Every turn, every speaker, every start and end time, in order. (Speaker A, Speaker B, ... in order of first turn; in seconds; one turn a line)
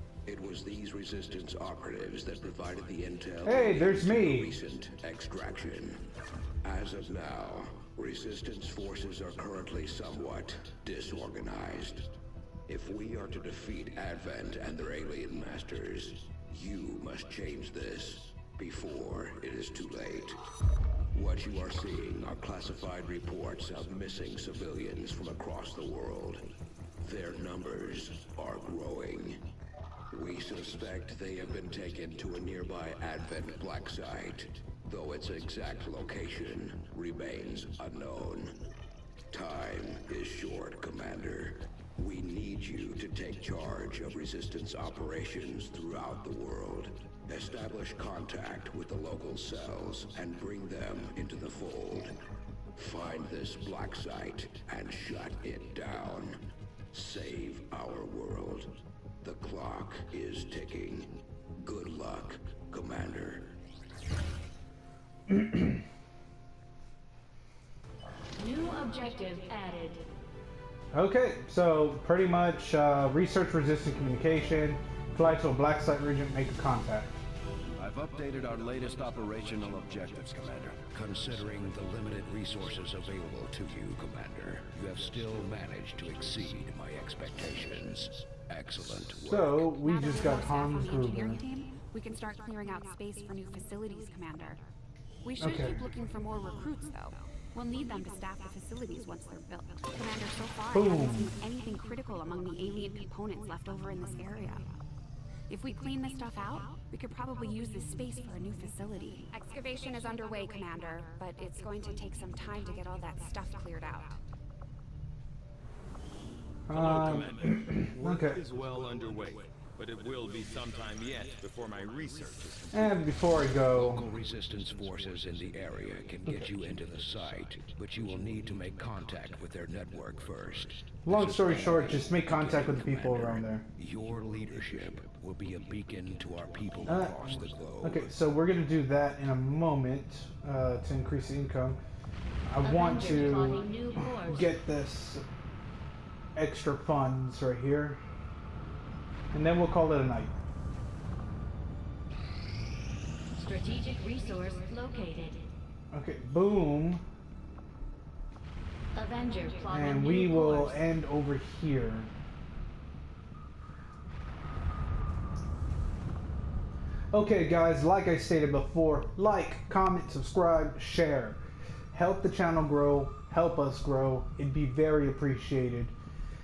Speaker A: 0.2-6.1
Speaker B: 3.5-4.5
Speaker A: 6.6-12.1
Speaker A: 12.7-20.4
Speaker A: 21.1-29.5
Speaker A: 30.1-38.6
Speaker A: 39.3-52.2
Speaker A: 52.8-63.5
Speaker B: 65.3-65.8
Speaker C: 68.4-70.0
Speaker B: 70.9-77.2
Speaker D: 77.8-80.8
Speaker A: 80.9-89.7
Speaker B: 89.2-91.4
Speaker E: 89.7-94.6
Speaker E: 95.2-104.7
Speaker B: 95.4-95.8
Speaker B: 100.7-101.3
Speaker E: 105.5-114.2
Speaker B: 116.7-118.4
Speaker F: 116.7-123.0
Speaker B: 122.7-124.1
Speaker A: 123.7-138.1
Speaker B: 131.1-133.7
Speaker B: 136.9-137.1
Speaker B: 137.8-141.8
Speaker B: 142.5-145.2
Speaker C: 142.6-144.6
Speaker B: 146.4-148.0
Speaker B: 149.3-150.3
Speaker C: 153.3-155.5
Speaker B: 155.9-157.0
Speaker C: 158.9-160.8
Speaker B: 159.7-162.1
Speaker B: 167.1-171.4
Speaker B: 171.9-175.9